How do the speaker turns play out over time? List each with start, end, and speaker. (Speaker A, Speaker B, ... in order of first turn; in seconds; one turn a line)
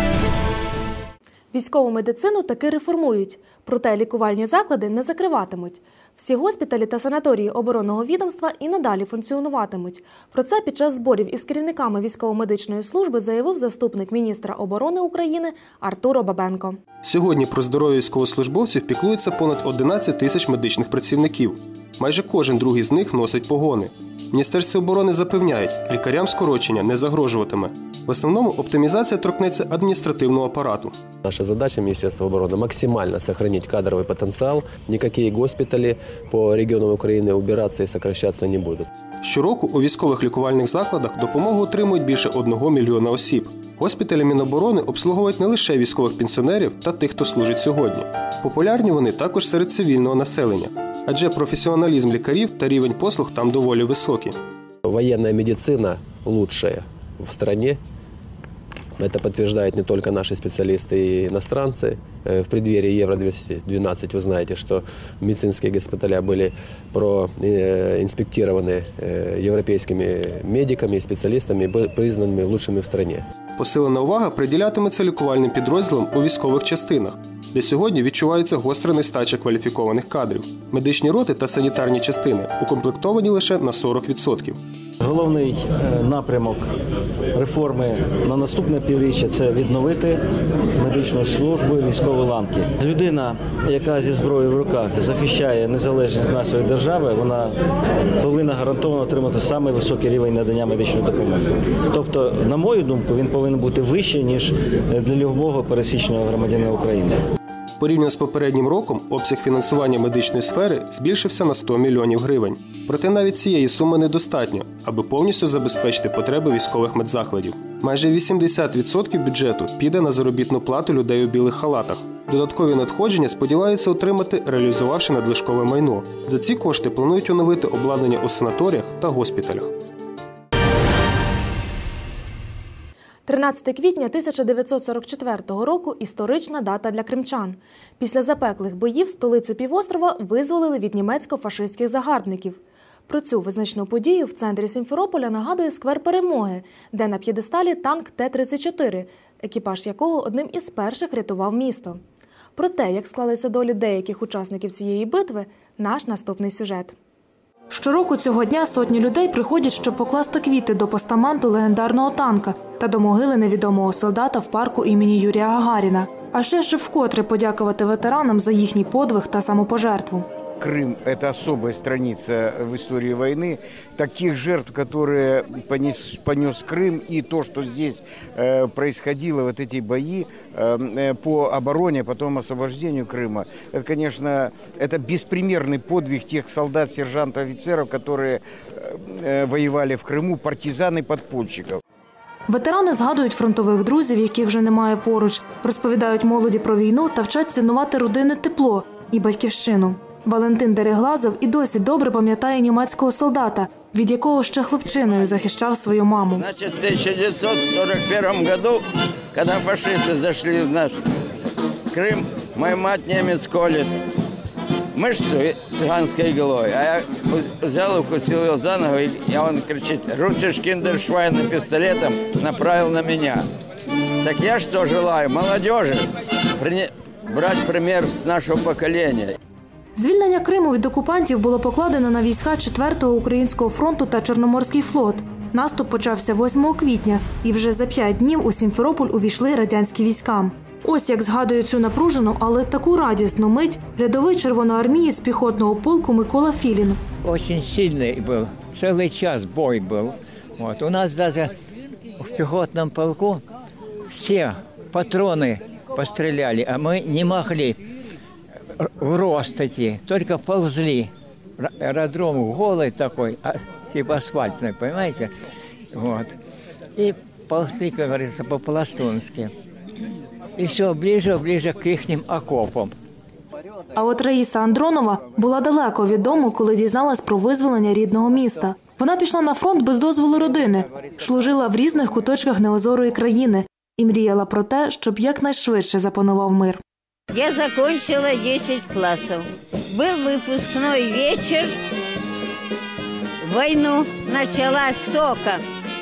Speaker A: 1.5-16.8
Speaker B: 17.0-31.0
Speaker C: 31.2-38.8
Speaker B: 39.2-54.4
Speaker C: 54.9-57.8
Speaker C: 59.0-73.2
Speaker B: 73.6-84.6
Speaker D: 85.0-86.7
Speaker D: 87.3-90.2
Speaker D: 90.8-97.6
Speaker D: 98.2-107.2
Speaker B: 107.8-129.7
Speaker A: 133.2-152.0
Speaker A: 152.6-156.9
Speaker A: 157.7-170.2
Speaker E: 170.6-191.8
Speaker A: 192.5-206.4
Speaker F: 206.4-210.9
Speaker F: 211.9-213.9
Speaker F: 214.9-223.4
Speaker F: 224.2-226.1
Speaker F: 226.6-229.4
Speaker A: 229.9-247.0
Speaker G: 247.2-251.5
Speaker G: 252.2-253.4
Speaker G: 254.1-257.8
Speaker G: 258.8-265.3
Speaker G: 265.9-266.4
Speaker G: 267.0-269.5
Speaker G: 270.6-272.9
Speaker A: 273.9-286.8
Speaker H: 287.3-291.7
Speaker H: 293.4-295.6